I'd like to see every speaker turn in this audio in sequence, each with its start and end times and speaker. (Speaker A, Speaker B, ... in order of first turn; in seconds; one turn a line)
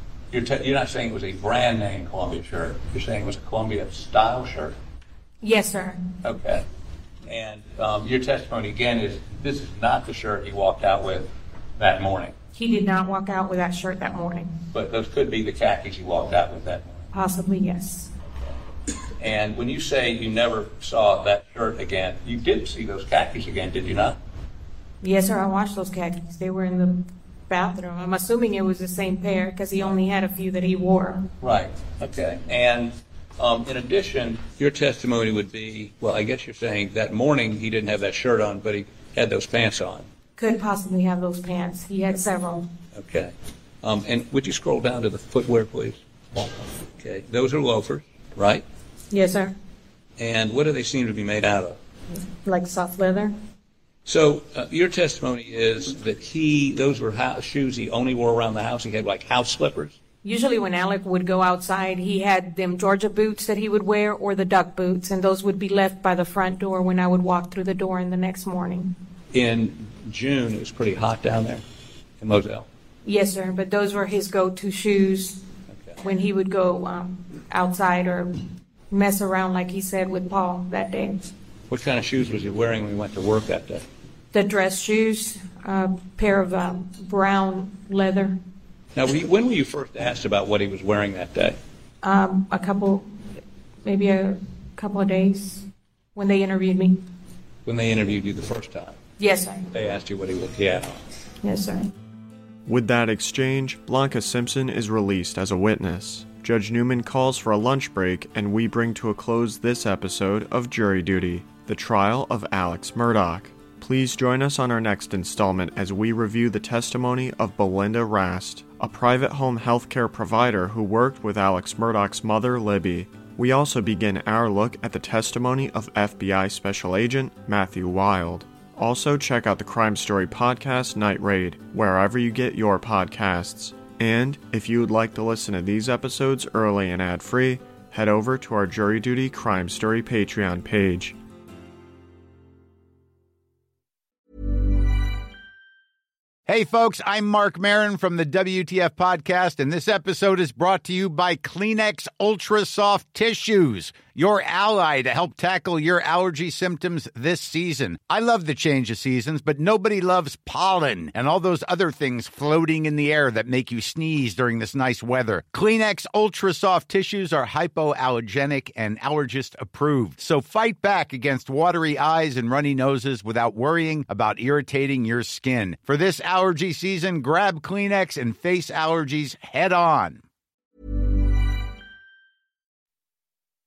Speaker A: 0.3-4.8
Speaker B: 5.4-6.0
Speaker A: 6.2-6.6
Speaker A: 7.2-12.4
Speaker B: 12.5-14.6
Speaker A: 14.7-17.1
Speaker B: 17.1-18.1
Speaker A: 19.2-24.2
Speaker B: 25.0-31.3
Speaker A: 31.4-40.1
Speaker B: 40.4-42.7
Speaker A: 42.9-48.6
Speaker B: 49.1-49.5
Speaker A: 50.2-51.8
Speaker B: 52.3-53.4
Speaker A: 54.0-60.0
Speaker B: 60.2-68.9
Speaker A: 69.3-71.6
Speaker A: 72.2-72.7
Speaker B: 73.0-75.4
Speaker B: 76.0-81.3
Speaker A: 81.7-83.8
Speaker B: 84.3-88.4
Speaker A: 89.0-91.6
Speaker B: 92.0-93.1
Speaker B: 93.8-97.0
Speaker A: 97.6-99.0
Speaker B: 99.2-99.7
Speaker A: 99.7-101.0
Speaker B: 101.4-101.9
Speaker C: 102.7-141.2
Speaker D: 146.5-180.2